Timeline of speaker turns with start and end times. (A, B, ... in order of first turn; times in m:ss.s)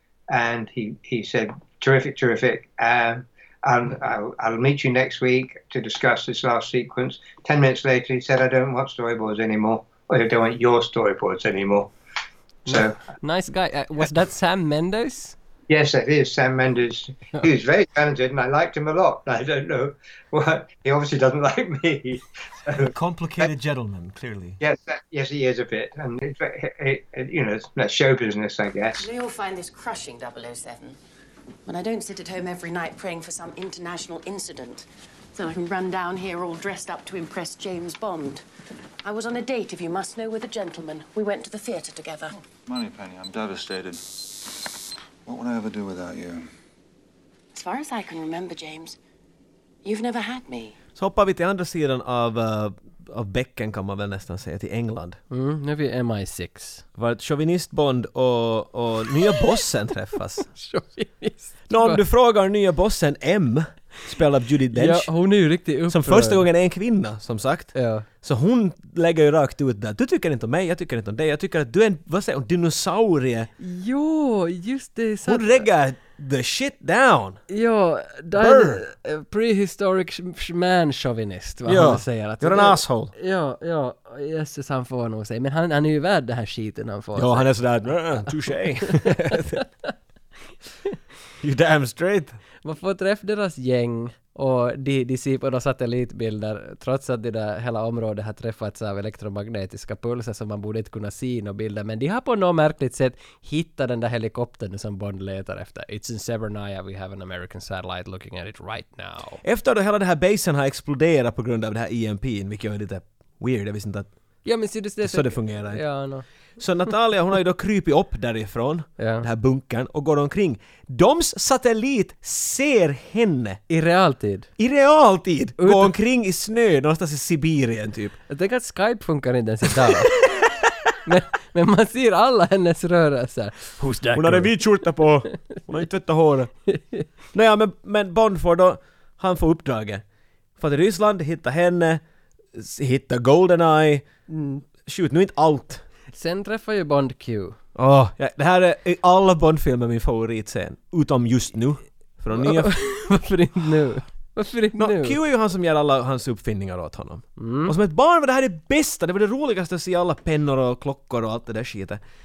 0:00.3-0:11.9 A
0:12.7-0:12.9 A
0:12.7-0:15.4 B
0:15.7-0:22.9 A
0:22.9-0:24.6 C
0:24.6-0:29.1 A
0:29.0-0:31.0 D
0:31.6-0:38.4 D
0:39.0-0:42.4 D
0:42.6-0:44.2 E
0:45.2-0:46.5 E
0:47.5-0:49.0 D
0:49.8-0:50.8 D
0:51.0-0:55.2 C
0:55.3-0:56.8 B
0:57.0-1:00.5 C
1:00.5-1:02.0 B
1:01.7-1:05.1 C
1:04.7-1:06.4 B
1:05.9-1:13.5 C
1:07.7-1:08.0 B
1:13.6-1:15.7 B
1:15.3-1:17.4 C
1:17.5-1:27.5 B
1:18.3-1:18.8 C
1:21.6-1:23.1 C
1:27.2-1:29.6 C
1:28.3-1:29.6 B
1:31.4-1:32.4 C
1:32.6-1:49.4 B
1:49.4-1:54.1 C
1:54.4-1:56.2 B
1:55.0-1:55.8 C
1:56.6-2:03.6 C
1:59.0-1:59.2 B
2:03.7-2:04.5 B
2:04.6-2:08.2 C
2:05.6-2:05.9 B
2:08.3-2:10.2 B
2:11.0-2:14.5 B
2:14.1-2:16.5 C
2:16.7-2:17.0 B
2:17.3-2:20.0 C
2:20.6-2:22.0 C
2:22.5-2:24.0 C
2:24.3-2:24.6 B
2:24.8-2:25.8 C
2:26.1-2:27.6 B
2:27.7-2:32.7 C
2:32.3-2:35.2 B
2:34.8-2:42.0 C
2:37.4-2:37.7 B